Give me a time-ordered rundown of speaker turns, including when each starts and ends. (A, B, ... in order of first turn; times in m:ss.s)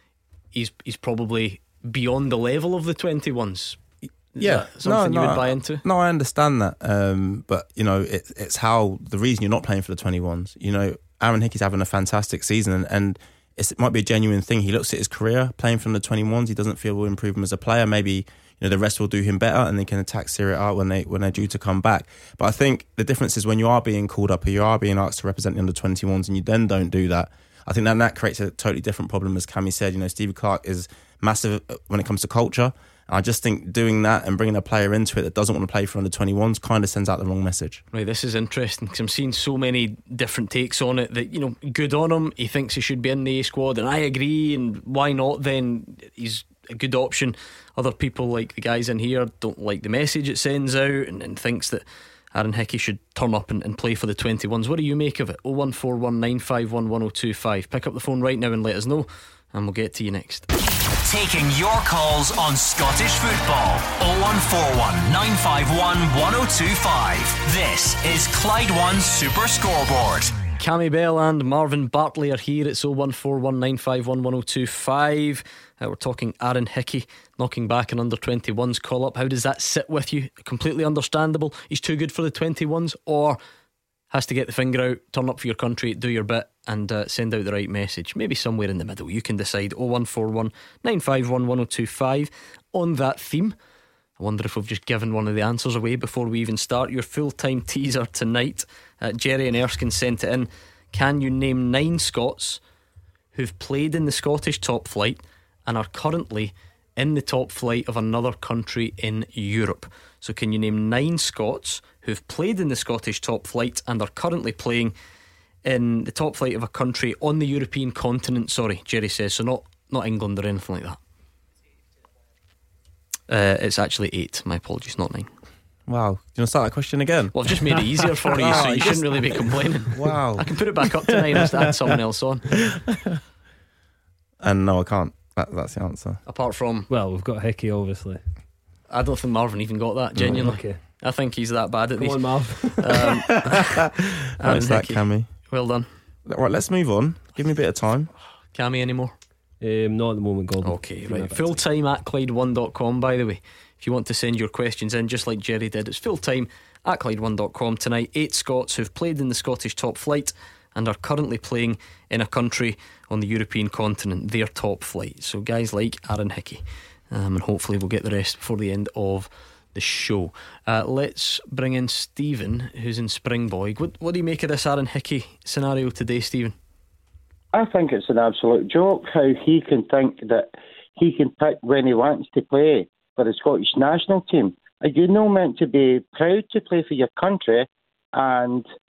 0:00.5-0:03.8 A
0:04.4-0:05.8 A
0:04.4-0:37.8 B
0:37.9-1:00.5 A
1:01.0-1:10.3 C
1:10.6-1:23.4 A
1:24.1-1:33.6 A
1:34.2-1:42.6 A
1:43.4-1:54.9 A
1:55.6-2:01.0 A
2:03.3-2:05.3 A
2:05.9-2:07.4 B
2:07.3-2:12.5 A
2:08.3-2:11.5 B
2:14.4-2:16.2 B
2:16.3-2:16.9 A
2:16.9-2:18.2 D
2:18.9-2:23.7 A
2:20.2-2:20.5 B
2:20.4-2:20.8 D
2:22.0-2:22.8 D
2:24.4-2:25.9 A
2:24.4-2:25.3 B
2:26.3-2:28.1 B
2:28.5-2:29.1 A
2:29.6-2:31.6 D
2:30.6-2:56.6 A
2:57.5-3:08.7 E